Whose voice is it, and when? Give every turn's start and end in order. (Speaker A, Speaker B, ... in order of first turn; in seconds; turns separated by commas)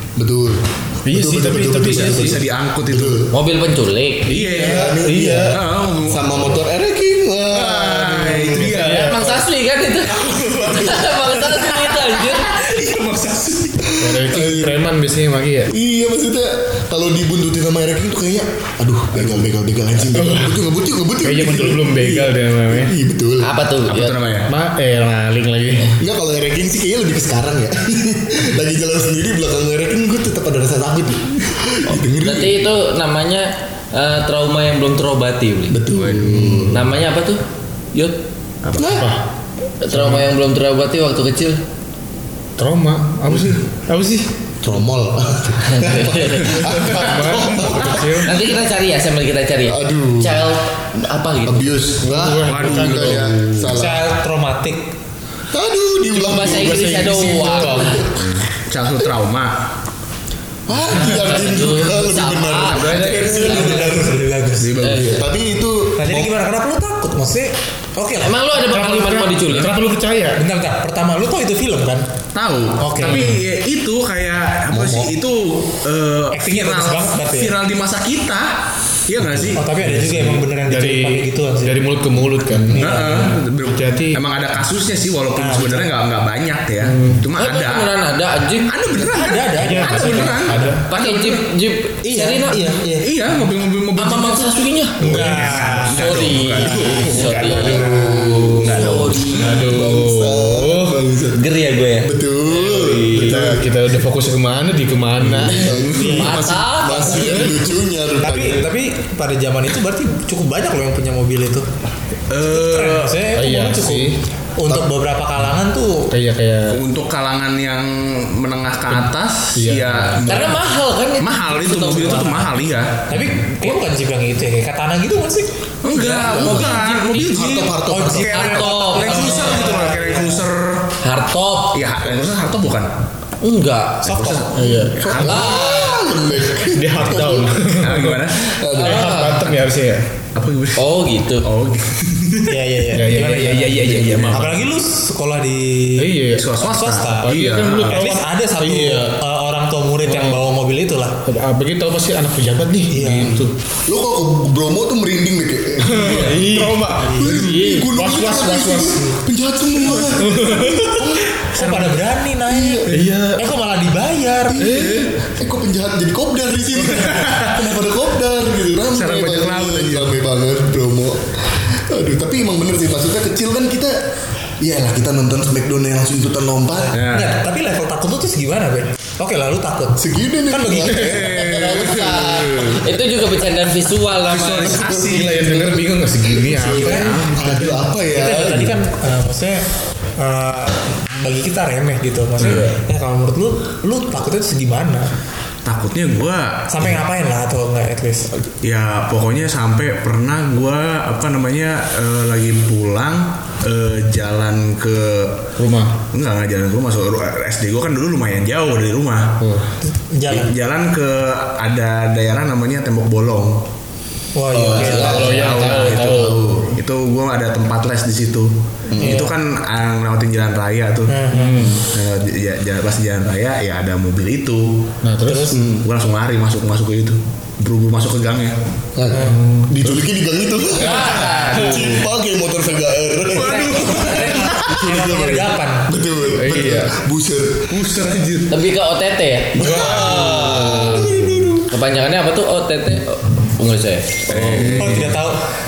Speaker A: 0.2-3.3, Speaker B: 1.1-2.4, Speaker C: 1.9-3.3, Speaker D: 3.3-4.3, Speaker C: 4.3-6.6, Speaker B: 4.3-5.6, Speaker A: 4.5-8.8, Speaker C: 7.5-9.3, Speaker B: 8.4-9.3, Speaker D: 8.8-12.6, Speaker C: 10.1-14.0, Speaker A: 13.8-14.8, Speaker B: 14.0-15.7, Speaker A: 15.7-23.5, Speaker B: 20.1-20.6, Speaker B: 21.2-22.9, Speaker D: 23.4-24.2, Speaker C: 23.9-24.5, Speaker B: 24.5-26.0, Speaker A: 26.0-32.6, Speaker D: 32.2-37.4, Speaker A: 35.7-36.9, Speaker C: 38.6-39.0, Speaker A: 38.8-39.1, Speaker B: 38.9-39.2, Speaker D: 39.8-41.6, Speaker B: 39.9-40.3, Speaker B: 42.6-44.3, Speaker A: 43.3-43.6, Speaker A: 44.6-48.4, Speaker D: 45.6-47.0, Speaker B: 46.5-48.4, Speaker D: 47.7-51.9, Speaker A: 49.7-50.5, Speaker A: 51.5-54.0, Speaker B: 52.0-53.7, Speaker C: 52.4-53.4, Speaker E: 53.7-54.8, Speaker A: 55.5-58.2, Speaker D: 56.1-58.0, Speaker B: 56.7-58.0, Speaker C: 58.1-59.6, Speaker A: 60.7-64.3, Speaker D: 60.9-63.9, Speaker B: 62.7-63.3, Speaker C: 62.9-63.8, Speaker E: 63.3-64.7, Speaker C: 64.6-65.3, Speaker D: 64.8-65.2, Speaker A: 65.0-66.3, Speaker E: 66.0-68.5, Speaker D: 68.2-69.7, Speaker B: 68.6-70.4, Speaker E: 70.3-72.1, Speaker C: 72.3-78.5, Speaker E: 72.8-73.4, Speaker A: 74.7-75.2, Speaker E: 76.3-77.5, Speaker C: 79.1-79.6, Speaker B: 79.3-84.2, Speaker E: 79.5-81.8, Speaker C: 82.7-87.9, Speaker E: 82.7-83.4, Speaker E: 85.3-85.9, Speaker B: 86.8-87.3, Speaker D: 87.3-88.9, Speaker C: 88.7-91.4, Speaker E: 89.0-90.5, Speaker B: 89.6-90.9, Speaker D: 90.9-92.8, Speaker E: 92.0-93.1, Speaker C: 93.0-99.4, Speaker D: 94.0-95.2, Speaker E: 95.0-98.3, Speaker B: 95.1-95.8, Speaker D: 95.9-99.7, Speaker B: 97.1-98.8, Speaker A: 97.7-101.4, Speaker B: 99.3-101.0, Speaker D: 101.3-103.5, Speaker A: 102.0-103.7, Speaker B: 103.1-105.7, Speaker A: 105.2-108.7, Speaker C: 105.6-106.5, Speaker D: 105.9-107.6, Speaker E: 106.0-106.2, Speaker E: 108.2-111.7, Speaker C: 112.3-113.2, Speaker E: 112.4-116.1, Speaker B: 113.3-114.2, Speaker B: 116.1-116.8, Speaker C: 116.7-123.2, Speaker B: 119.5-120.5, Speaker D: 120.3-122.5, Speaker E: 123.1-125.5, Speaker C: 125.8-130.9, Speaker D: 125.9-127.7, Speaker A: 126.0-128.6, Speaker E: 127.9-130.5, Speaker D: 128.3-129.9, Speaker D: 131.0-131.8, Speaker C: 131.7-132.9, Speaker D: 133.4-134.5, Speaker C: 134.0-135.8, Speaker B: 134.5-135.0, Speaker A: 134.6-137.7, Speaker D: 135.1-136.1, Speaker B: 136.7-138.2, Speaker C: 137.8-138.6, Speaker A: 138.3-139.1, Speaker B: 138.8-140.1, Speaker D: 138.8-139.6, Speaker C: 140.3-142.6, Speaker D: 140.8-141.5, Speaker E: 142.5-151.2, Speaker B: 142.9-144.6, Speaker C: 143.8-144.6, Speaker B: 146.0-146.5, Speaker C: 146.3-148.1, Speaker B: 147.2-149.2, Speaker B: 150.0-150.4, Speaker B: 151.3-153.5, Speaker E: 152.9-153.4, Speaker A: 153.9-161.3, Speaker B: 155.8-159.1, Speaker D: 157.2-157.9, Speaker B: 159.9-161.2, Speaker E: 161.5-164.7, Speaker C: 161.5-162.0, Speaker A: 162.5-163.0, Speaker B: 162.9-163.5, Speaker A: 164.6-174.0, Speaker B: 164.6-165.1, Speaker C: 167.2-167.5, Speaker C: 168.9-170.2, Speaker A: 174.6-176.9, Speaker E: 176.7-181.2, Speaker C: 176.9-177.4, Speaker A: 180.0-182.2, Speaker B: 180.8-181.3, Speaker C: 181.0-182.8, Speaker D: 181.4-184.9, Speaker A: 184.2-188.8, Speaker C: 184.8-185.2, Speaker B: 184.9-187.3, Speaker E: 186.7-189.6, Speaker C: 186.9-187.4, Speaker E: 190.2-195.1, Speaker C: 192.4-192.7, Speaker A: 192.4-192.7, Speaker C: 195.7-197.0, Speaker E: 196.7-198.4, Speaker C: 198.6-205.5, Speaker B: 205.6-206.0, Speaker C: 206.1-209.4, Speaker B: 209.4-209.7, Speaker E: 210.0-210.5, Speaker C: 210.3-213.6, Speaker E: 214.3-215.2, Speaker A: 214.5-216.8, Speaker C: 214.7-224.7, Speaker D: 214.8-216.1, Speaker B: 214.9-216.7, Speaker A: 218.9-219.2, Speaker E: 219.0-219.3, Speaker E: 221.1-221.7, Speaker B: 221.3-221.8, Speaker B: 225.0-225.6, Speaker E: 225.2-225.6, Speaker A: 225.5-225.9, Speaker C: 225.8-228.6, Speaker A: 229.0-238.2, Speaker E: 229.1-229.4, Speaker B: 229.2-229.8, Speaker D: 230.8-232.0, Speaker B: 231.3-231.8, Speaker C: 233.3-234.9, Speaker E: 233.4-235.9, Speaker B: 236.4-237.0, Speaker B: 237.8-238.4, Speaker C: 237.9-238.2, Speaker D: 238.5-244.9, Speaker A: 239.6-241.7, Speaker B: 239.6-240.6, Speaker C: 244.3-245.2, Speaker E: 244.7-245.5